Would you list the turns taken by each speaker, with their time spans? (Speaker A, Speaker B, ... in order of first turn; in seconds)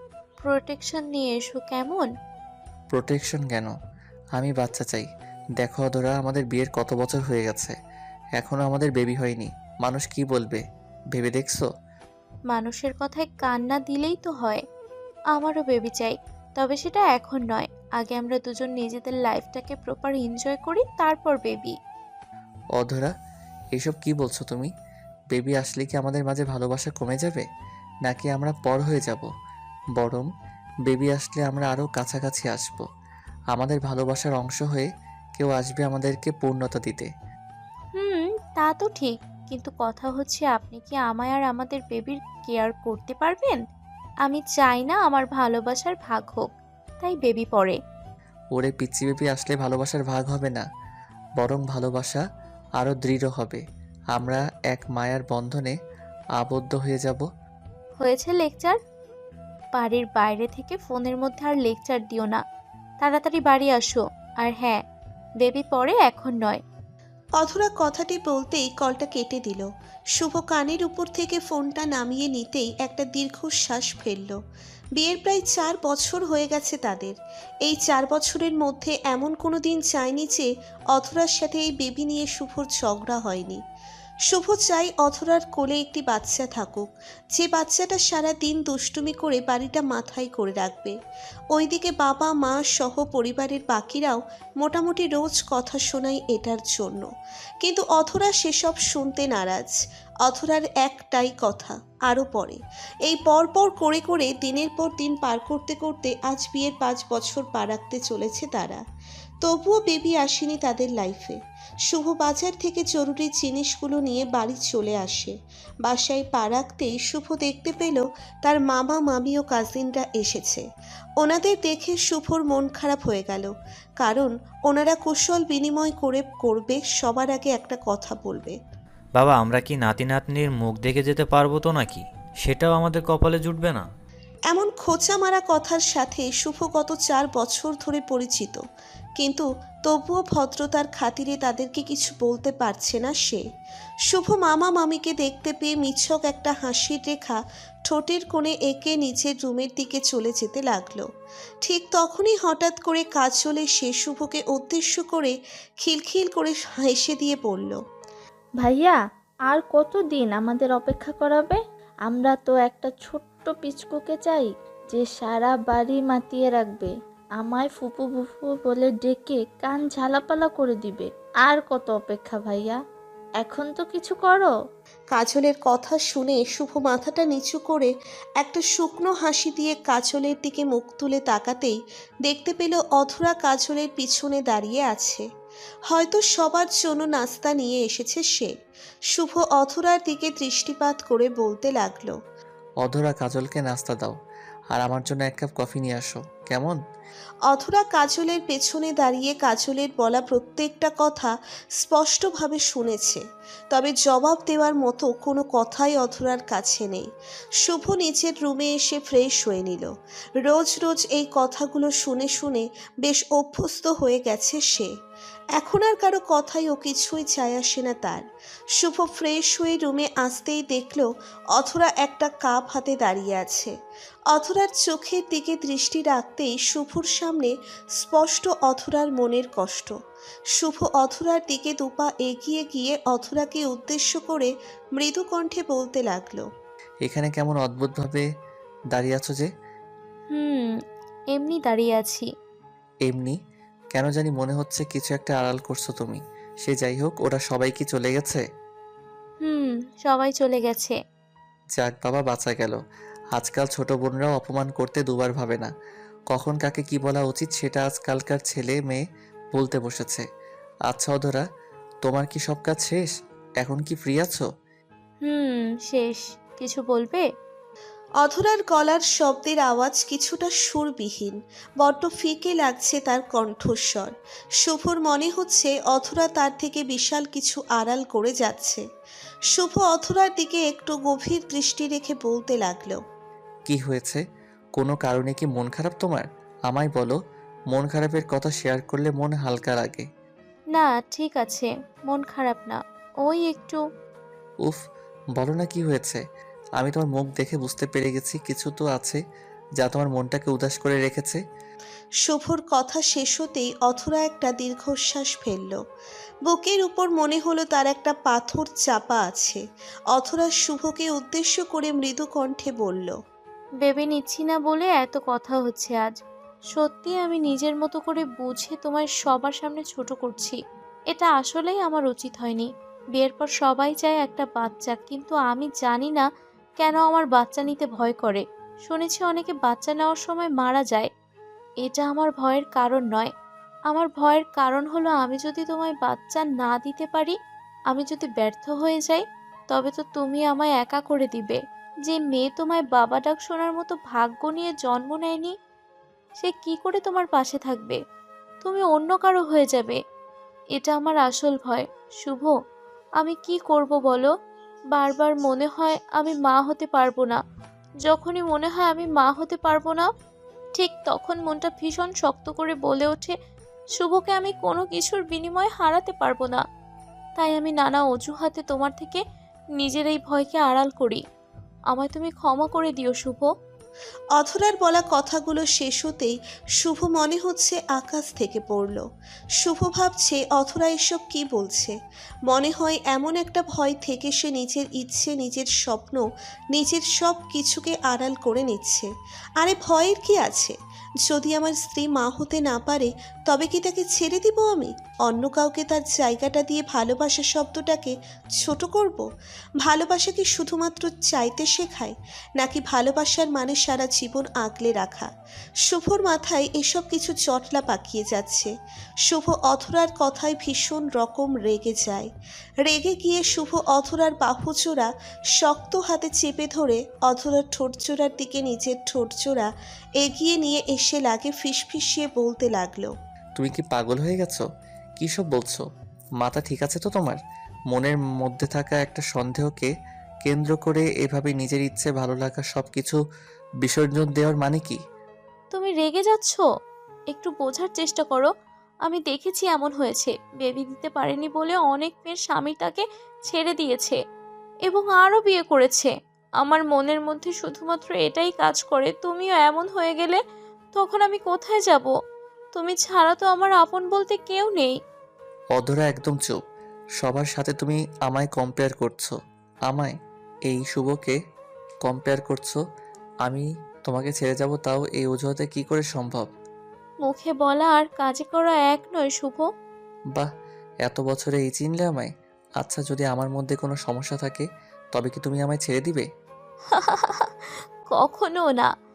Speaker A: 0.4-2.1, 12.5-14.6, 15.3-21.7, 37.9-43.6, 44.2-46.5, 47.0-47.8, 58.0-58.8, 59.7-62.4, 63.0-64.8, 65.4-66.6, 240.3-240.7, 241.3-242.2, 249.4-250.9, 265.2-267.2, 290.7-293.8, 313.8-316.1, 316.7-320.6, 321.1-326.2, 326.8-331.1, 331.8-333.3, 333.9-337.3, 337.9-345.5, 346.4-348.0, 348.6-350.0, 350.8-352.5, 353.2-354.3, 354.9-357.4, 358.0-360.1, 360.8-363.4, 364.0-366.6, 367.4-369.2, 369.8-371.2, 371.9-373.5, 435.7-436.6, 437.3-438.5, 439.1-444.2, 444.9-446.1, 446.6-450.4, 450.9-452.1, 452.7-454.9, 467.2-469.6, 476.9-477.5, 478.1-478.9
Speaker B: 2.9-3.7, 4.4-5.1, 5.6-7.8, 8.4-10.6, 11.1-11.7, 22.8-23.1, 23.7-24.7, 25.3-27.4, 28.0-29.3, 29.9-30.3, 30.9-32.8, 33.5-37.1, 48.5-50.6, 51.4-52.2, 52.8-53.6, 54.1-55.7, 56.4-57.2, 192.8-194.2, 194.7-196.8, 237.0-238.2, 238.9-239.5, 243.1-243.4, 243.9-248.4, 251.8-252.8, 253.3-255.7, 256.3-259.0, 259.5-260.2, 260.9-261.4, 262.0-263.1, 263.6-264.4, 283.6-284.2, 284.8-287.1, 287.7-290.1, 295.4-296.2, 296.8-299.2, 299.8-301.4, 423.6-424.6, 425.2-425.8, 426.4-427.4, 427.9-429.9, 430.4-433.2, 433.8-435.0, 455.8-456.6, 457.2-459.3, 459.9-460.1, 460.7-461.4, 462.0-462.8, 463.4-466.5, 471.1-476.2
Speaker C: 67.4-69.6, 70.2-74.3, 75.0-77.1, 77.8-80.4, 81.1-83.6, 84.3-86.8, 87.4-90.9, 91.6-94.1, 94.6-97.0, 97.7-99.5, 100.3-101.6, 103.1-108.8, 109.5-111.3, 111.9-115.3, 115.9-120.6, 121.2-123.5, 124.0-128.6, 134.5-138.6, 139.2-143.4, 144.1-147.3, 147.9-151.1, 151.7-155.3, 155.8-157.7, 175.1-177.9, 178.4-181.7, 182.3-185.2, 185.9-188.5, 189.2-192.1, 197.5-201.3, 201.9-203.2, 203.7-207.0, 207.7-209.8, 210.5-214.9, 215.6-218.2, 218.8-221.0, 221.6-223.7, 224.3-227.5, 228.1-229.9, 230.6-234.5, 235.0-236.4, 268.2-274.1, 274.6-278.8, 279.6-283.0, 302.2-305.7, 306.5-309.6, 310.1-312.9, 374.4-376.3, 376.8-378.9, 379.6-381.9, 382.5-386.2, 386.8-389.1, 389.6-390.7, 391.4-398.1, 398.6-399.2, 399.9-402.1, 402.6-405.2, 405.9-408.7, 409.3-412.2, 412.9-415.1, 415.6-419.7, 420.2-423.1
Speaker D: 129.2-133.8
Speaker E: 158.6-172.8, 173.4-174.5